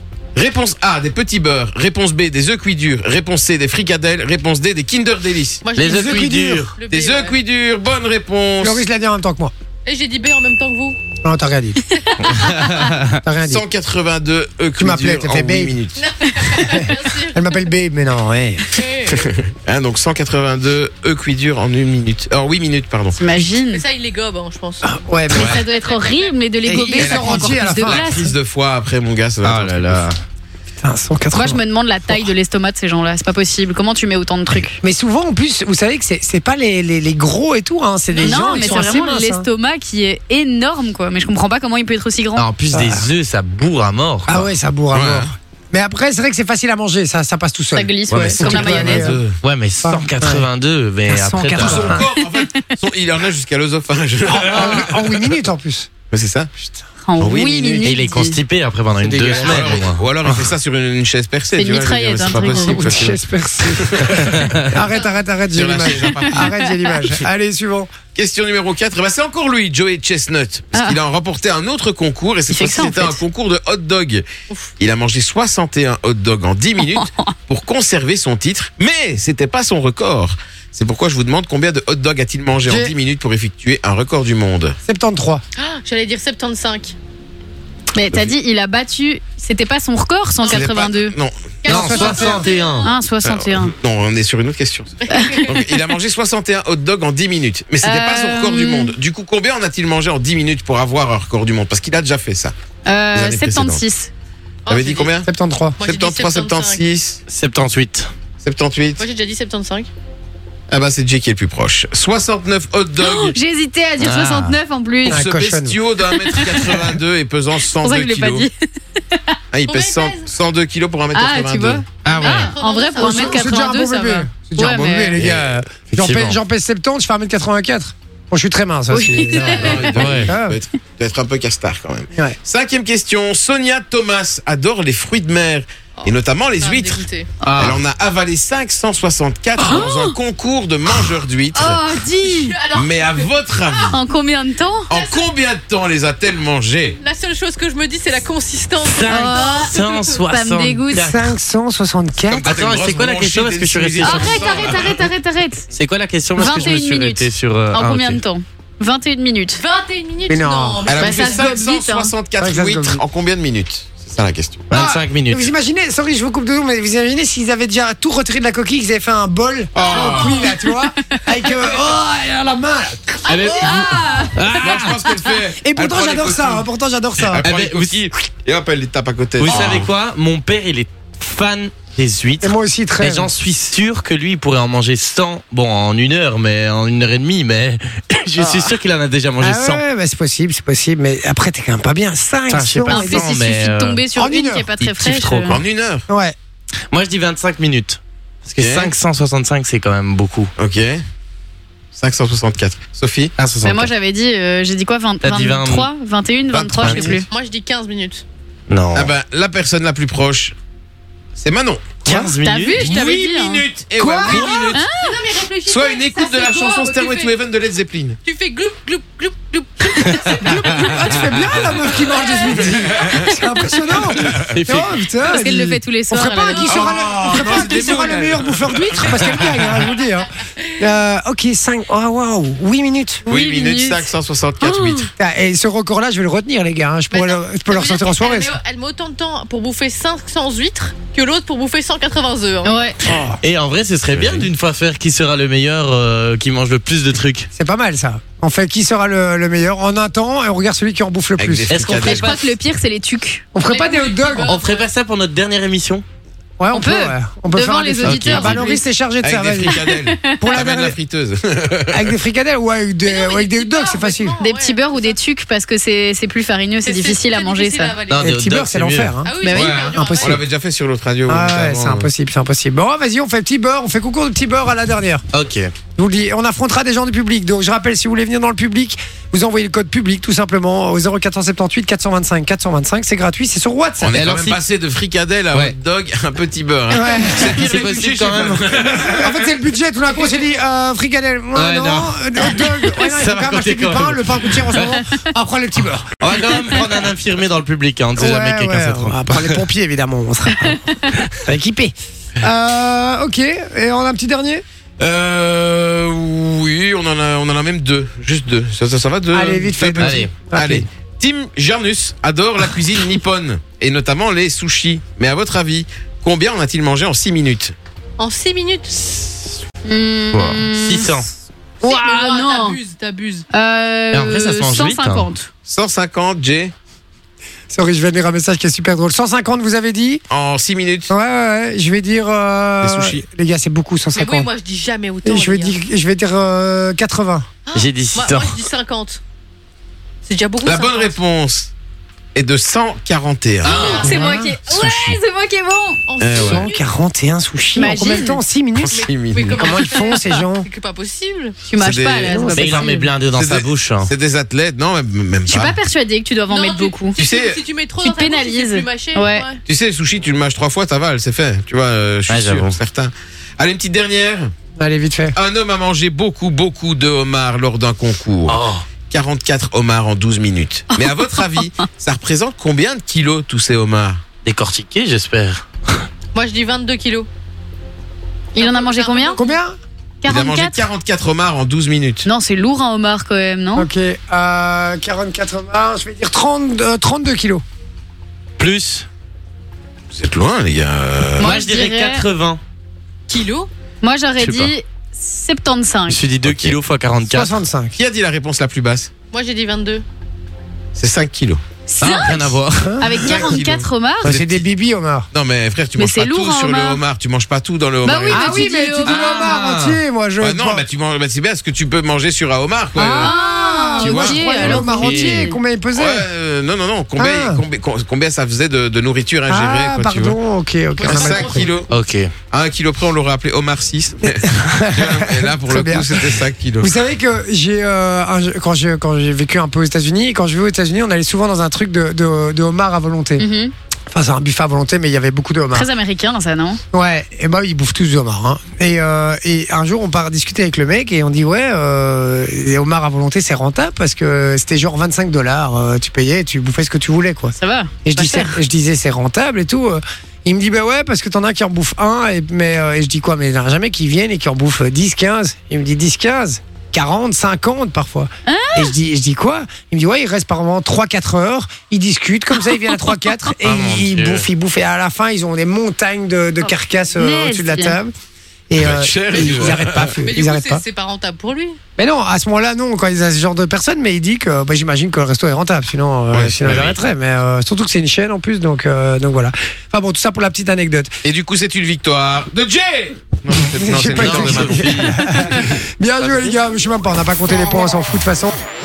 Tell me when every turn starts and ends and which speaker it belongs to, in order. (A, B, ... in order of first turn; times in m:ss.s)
0:00.4-0:05.6 A
0:05.6-0:07.4 B
0:05.8-0:06.8 C
0:05.9-0:06.6 D
0:06.9-0:08.8 A
0:08.6-0:09.5 D
0:09.8-0:11.0 B
0:11.2-0:11.9 D
0:11.9-0:12.3 B
0:12.2-0:13.2 C
0:13.2-0:13.6 D
0:13.4-0:16.0 A
0:14.8-0:15.8 D
0:16.0-0:17.6 B
0:16.5-0:18.7 D
0:18.7-0:19.3 B
0:19.1-0:23.2 A
0:23.2-0:23.8 E
0:23.6-0:26.4 B
0:24.8-0:25.6 D
0:25.4-0:28.3 E
0:26.6-0:28.2 D
0:27.0-0:30.1 A
0:29.4-0:30.2 C
0:30.8-0:32.3 D
0:31.3-0:34.8 E
0:34.8-0:39.5 D
0:38.1-0:38.9 B
0:38.2-0:42.5 E
0:42.4-0:44.3 C
0:42.7-0:43.1 D
0:44.3-0:49.2 D
0:44.3-0:45.3 A
0:47.7-0:49.2 E
0:48.1-0:49.4 A
0:49.4-0:52.0 C
0:49.8-0:50.5 D
0:51.1-0:52.0 D
0:51.6-0:55.3 A
0:54.3-0:55.9 D
0:56.1-0:56.7 A
0:57.0-0:58.4 E
0:57.2-0:57.9 A
0:57.8-1:00.5 C
0:59.0-0:59.7 D
0:59.3-1:04.3 A
1:01.5-1:02.9 E
1:02.4-1:07.9 D
1:04.3-1:04.7 C
1:05.5-1:06.5 A
1:08.2-1:14.2 A
1:12.5-1:13.2 E
1:14.8-1:24.8 A
1:16.8-1:17.1 E
1:22.6-1:22.9 D
1:24.8-1:25.4 D
1:25.6-1:27.0 B
1:28.0-1:31.1 E
1:30.4-1:30.8 B
1:30.5-1:32.4 A
1:31.6-1:32.9 B
1:31.7-1:32.9 C
1:31.7-1:32.4 D
1:32.8-1:33.7 E
1:33.2-1:42.5 A
1:35.0-1:35.5 B
1:35.1-1:35.4 E
1:37.8-1:39.0 E
1:42.9-1:44.1 E
1:43.1-1:43.9 A
1:44.6-1:45.2 B
1:44.7-1:45.3 A
1:45.3-1:45.8 D
1:45.8-1:46.8 B
1:45.8-1:47.2 A
1:47.3-1:48.1 C
1:48.4-1:49.0 A
1:49.0-1:49.9 B
1:50.7-1:53.4 A
1:53.0-1:55.2 E
1:54.0-1:54.6 C
1:55.0-1:58.5 A
1:55.1-1:55.8 D
1:56.1-1:56.8 E
1:57.8-1:58.5 E
1:59.5-2:01.8 A
1:59.7-2:00.3 B
2:01.1-2:05.2 E
2:02.0-2:02.5 C
2:02.1-2:03.7 B
2:03.0-2:10.6 D
2:05.2-2:05.6 A
2:05.9-2:06.4 C
2:08.9-2:10.0 E
2:09.1-2:09.8 B
2:09.2-2:17.0 A
2:09.9-2:10.3 C
2:16.0-2:17.3 B
2:17.4-2:17.8 C
2:17.6-2:21.8 A
2:19.6-2:20.1 E
2:21.5-2:22.6 E
2:22.2-2:23.9 B
2:22.7-2:24.0 A
2:23.9-2:24.9 E
2:24.9-2:27.0 A
2:24.9-2:25.3 B
2:27.0-2:30.2 B
2:28.9-2:31.3 C
2:29.1-2:31.1 E
2:30.9-2:32.6 D
2:32.3-2:34.7 C
2:32.4-2:35.1 A
2:34.0-2:35.6 E
2:34.3-2:35.0 B
2:35.7-2:38.2 C
2:36.4-2:39.6 E
2:36.4-2:36.8 B
2:39.6-2:41.6 B
2:40.3-2:40.9 D
2:40.9-2:44.7 A
2:41.0-2:42.1 E
2:42.4-2:43.0 D
2:44.7-2:45.5 C
2:44.7-2:54.0 D
2:49.7-2:50.5 A
2:49.8-2:50.5 B
2:53.2-2:53.8 B
2:53.3-2:56.7 A
2:53.6-2:55.2 E
2:54.4-2:55.0 C
2:55.6-2:57.4 D
2:57.3-2:59.9 A
2:57.4-2:58.0 C
2:59.4-3:09.8 C
3:02.4-3:03.3 D
3:09.4-3:13.3 D
3:12.5-3:14.0 C
3:12.9-3:15.6 E
3:14.2-3:14.7 D
3:14.8-3:15.6 C
3:15.5-3:16.1 A
3:16.1-3:16.4 D
3:16.9-3:20.5 C
3:18.6-3:18.9 A
3:20.6-3:21.0 A
3:22.0-3:23.3 A
3:23.4-3:23.9 C
3:23.6-3:27.3 E
3:25.2-3:25.9 C
3:26.5-3:27.3 A
3:26.8-3:27.2 C
3:27.3-3:28.2 B
3:28.7-3:29.1 C
3:28.9-3:30.6 A
3:31.4-3:32.0 A
3:32.0-3:32.9 C
3:32.1-3:32.4 D
3:32.4-3:33.6 E
3:32.8-3:34.8 A
3:34.0-3:34.7 D
3:34.3-3:37.4 B
3:34.7-3:35.2 E
3:35.7-3:38.2 A
3:38.2-3:42.9 B
3:40.4-3:53.3 D
3:42.5-3:43.4 A
3:44.1-3:44.4 A
3:44.4-3:45.4 C
3:45.2-3:46.8 E
3:46.4-3:47.8 B
3:46.7-3:49.1 A
3:50.6-3:50.9 B
3:53.3-3:54.1 E
3:53.3-3:55.1 A
3:54.6-3:55.1 E
3:55.2-3:58.6 D
3:57.1-4:02.9 B
4:02.6-4:03.0 E
4:03.1-4:03.4 D
4:03.4-4:07.5 C
4:04.1-4:04.5 A
4:07.5-4:11.8 D
4:11.4-4:12.4 A
4:11.7-4:12.6 C
4:12.0-4:13.5 E
4:13.5-4:14.5 D
4:13.6-4:14.9 B
4:14.4-4:16.0 C
4:16.6-4:19.8 D
4:16.7-4:18.8 E
4:18.0-4:18.7 C
4:19.2-4:22.2 A
4:19.7-4:20.6 E
4:20.4-4:21.0 D
4:21.9-4:24.4 D
4:23.0-4:25.2 B
4:24.4-4:28.0 E
4:26.8-4:28.4 B
4:28.1-4:29.2 C
4:28.2-4:30.4 D
4:29.2-4:30.4 B
4:29.4-4:29.8 E
4:29.5-4:32.1 A
4:31.3-4:35.2 D
4:35.3-4:35.7 C
4:36.0-4:44.2 D
4:44.0-4:49.5 A
4:44.1-4:44.6 C
4:46.9-4:47.7 D
4:47.3-4:49.0 C
4:49.2-4:56.8 D
4:51.6-4:54.9 C
4:54.9-4:55.2 E
4:56.2-4:59.6 C
4:58.2-5:04.6 D
5:05.0-5:17.8 A
5:09.3-5:10.9 D
5:10.0-5:10.3 C
5:18.2-5:19.6 B
5:19.8-5:21.2 E
5:20.3-5:21.3 C
5:21.8-5:23.5 B
5:21.8-5:22.8 E
5:23.5-5:25.5 E
5:24.1-5:25.3 C
5:25.7-5:26.7 A
5:27.7-5:30.2 D
5:30.3-5:31.1 A
5:31.1-5:34.5 D
5:32.8-5:33.2 A
5:34.1-5:35.8 B
5:35.2-5:37.5 D
5:37.7-5:39.2 B
5:37.7-5:38.6 C
5:40.2-5:41.2 B
5:40.6-5:41.7 A
5:42.4-5:45.2 A
5:43.6-5:44.3 B
5:43.7-5:46.0 E
5:43.8-5:44.0 C
5:44.0-5:44.5 D
5:46.1-5:46.8 B
5:46.2-5:46.7 A
5:46.4-5:49.0 D
5:47.8-5:48.4 E
5:48.8-5:49.7 A
5:48.9-5:51.6 B
5:49.6-5:50.7 D
5:49.8-5:50.3 E
5:51.6-5:53.1 E
5:51.8-5:52.5 A
5:52.3-5:53.0 D
5:52.5-5:54.1 C
5:53.3-5:55.8 A
5:55.5-5:57.2 E
5:56.5-5:59.6 B
5:57.2-5:57.6 A
5:58.0-5:59.5 E
5:59.7-6:04.5 A
6:02.3-6:02.7 C
6:04.8-6:05.4 D
6:05.4-6:14.2 A
6:08.5-6:08.8 C
6:14.4-6:16.1 C
6:16.3-6:17.3 B
6:18.6-6:19.4 E
6:18.6-6:19.6 B
6:19.4-6:19.8 D
6:20.2-6:20.9 E
6:20.2-6:22.3 A
6:22.2-6:23.9 E
6:23.8-6:27.6 D
6:28.6-6:29.1 C
6:30.1-6:31.6 A
6:31.4-6:32.3 E
6:31.4-6:32.6 C
6:33.3-6:33.7 B
6:34.0-6:36.2 E
6:34.4-6:34.7 C
6:36.1-6:37.6 C
6:36.4-6:36.8 A
6:37.3-6:38.0 D
6:38.0-6:39.1 A
6:39.3-6:40.0 B
6:41.0-6:41.6 A
6:41.9-6:44.3 E
6:42.0-6:43.3 C
6:42.8-6:43.7 D
6:43.2-6:44.6 A
6:44.2-6:45.3 D
6:45.3-6:48.6 A
6:46.0-6:47.0 E
6:48.0-6:49.7 E
6:48.3-6:50.8 D
6:49.0-6:50.0 C
6:50.4-6:53.3 A
6:53.0-6:56.3 D
6:53.2-6:55.6 E
6:54.0-6:54.8 A
6:54.6-6:55.5 C
6:55.9-7:00.4 A
6:57.2-6:57.6 D
6:59.5-7:01.7 D
7:01.0-7:01.8 B
7:01.0-7:01.9 A
7:01.9-7:02.3 C
7:02.5-7:07.0 A
7:04.3-7:06.3 D
7:06.8-7:13.5 D
7:13.4-7:13.7 E
7:14.1-7:15.9 D
7:15.7-7:16.8 E
7:16.9-7:48.1 D
7:27.6-7:28.6 E
7:38.5-7:38.9 E
7:43.6-7:44.5 C
7:47.1-7:48.0 E
7:48.7-7:50.8 D
7:48.8-7:50.2 A
7:49.3-7:51.8 B
7:52.0-8:01.1 D
7:56.3-7:57.0 A
7:56.6-7:57.0 C
8:01.2-8:05.0 A
8:03.5-8:08.5 D
8:04.2-8:06.6 C